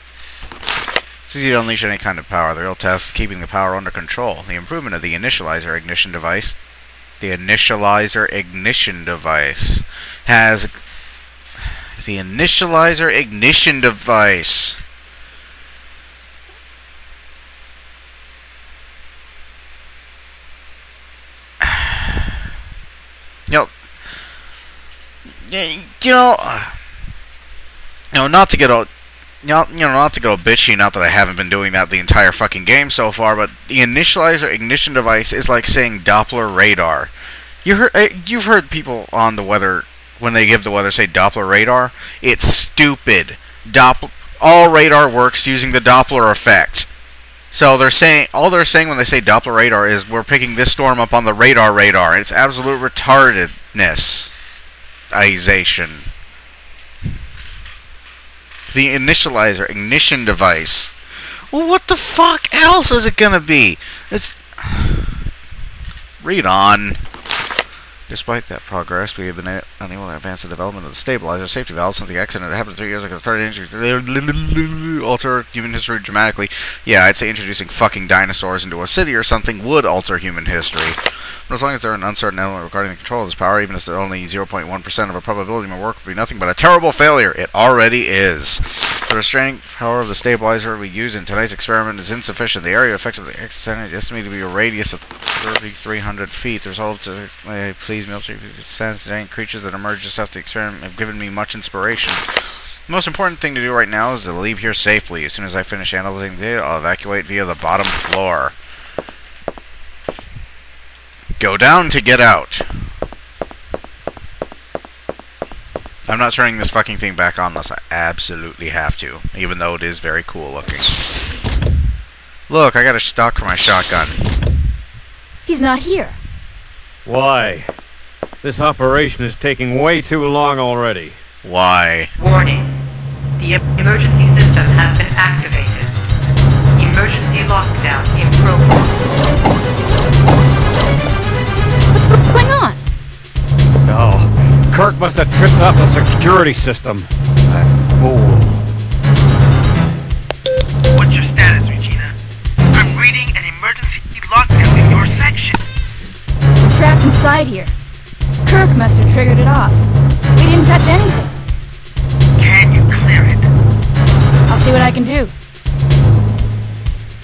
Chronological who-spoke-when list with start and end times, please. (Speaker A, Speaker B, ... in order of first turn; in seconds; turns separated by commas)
Speaker A: 1.3-6.6, Speaker A: 7.2-10.7, Speaker A: 12.0-14.8, Speaker A: 21.6-22.2, Speaker A: 23.5-23.7, Speaker A: 25.4-26.8, Speaker A: 28.1-28.9, Speaker A: 29.4-37.1, Speaker A: 37.6-46.9, Speaker A: 47.5-54.3, Speaker A: 55.1-56.1, Speaker A: 58.7-65.3, Speaker A: 66.2-67.0, Speaker A: 68.1-108.6, Speaker A: 111.4-112.9, Speaker A: 116.1-120.9, Speaker A: 122.5-124.3, Speaker B: 125.5-126.2, Speaker C: 127.0-127.7, Speaker C: 128.4-131.2, Speaker A: 131.4-132.1, Speaker D: 132.2-132.7, Speaker D: 133.4-136.0, Speaker D: 136.8-139.0, Speaker B: 141.9-142.8, Speaker C: 143.8-148.5, Speaker E: 150.9-152.2, Speaker E: 152.7-155.6, Speaker B: 156.6-157.7, Speaker B: 158.4-161.3, Speaker E: 162.4-163.5, Speaker B: 164.5-165.3